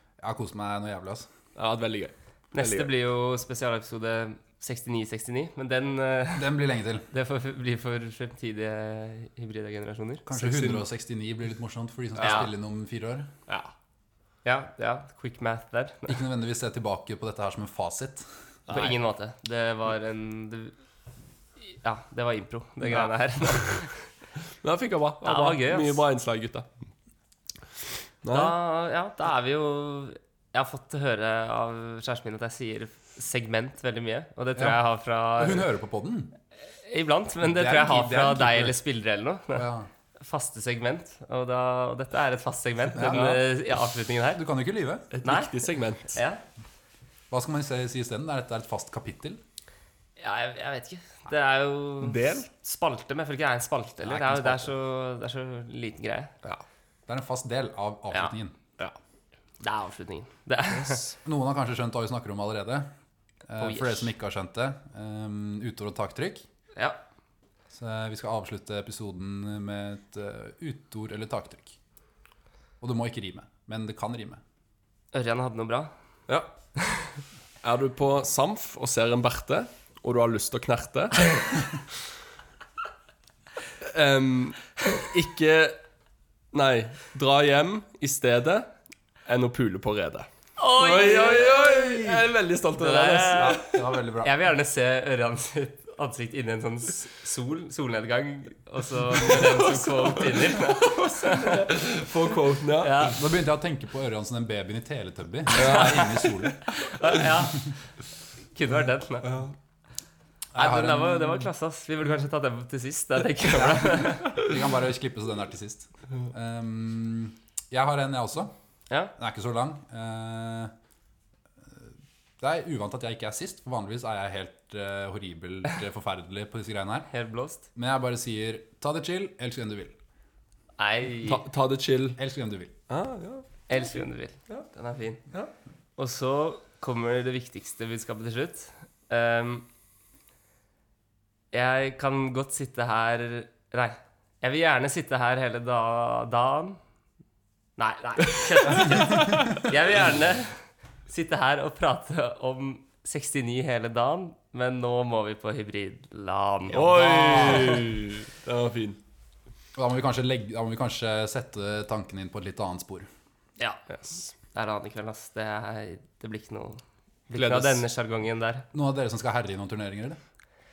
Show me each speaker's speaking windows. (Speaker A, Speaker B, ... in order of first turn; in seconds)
Speaker A: 0.2-1.3, 6.3-7.1, 10.2-13.3, 16.1-18.2, 34.5-34.8, 35.4-36.4, 37.4-38.8, 39.5-39.9, 42.9-43.4, 44.3-45.1, 47.3-49.4, 54.1-54.6, 57.1-58.6, 61.2-62.9, 63.5-66.4, 67.7-71.8, 72.8-74.4, 93.3-94.3, 103.1-106.7, 110.5-111.5, 113.5-118.5, 119.2-120.7, 121.6-127.1, 127.7-129.9, 132.2-132.7, 159.7-163.1, 168.7-170.2
Speaker B: 1.6-2.9, 10.4-10.8, 12.2-12.4, 13.5-13.7, 18.7-19.0, 24.6-26.7, 28.2-28.5, 43.0-43.4, 45.1-46.1, 52.0-52.5, 60.7-61.1, 77.6-81.5, 83.8-85.8, 86.5-88.7, 89.2-93.7, 99.2-103.1, 105.5-106.5, 109.3-109.5, 131.2-132.2, 132.9-134.6, 156.7-159.0, 163.9-164.2, 167.3-167.8
Speaker C: 2.5-6.5, 7.1-10.2, 14.4-16.2, 18.7-20.7, 21.6-24.0, 25.2-26.0, 28.3-35.7, 36.9-39.6, 40.2-44.4, 45.2-45.6, 46.1-46.4, 50.2-56.3, 59.6-61.0, 63.6-64.1, 75.1-75.9, 90.6-92.2, 92.8-93.7, 94.2-101.7, 102.8-103.2, 106.7-107.7, 108.5-109.3, 110.5-114.4, 127.1-127.7, 130.8-131.4, 133.7-135.2, 136.0-139.7, 141.5-146.8, 147.8-157.9, 163.6-168.7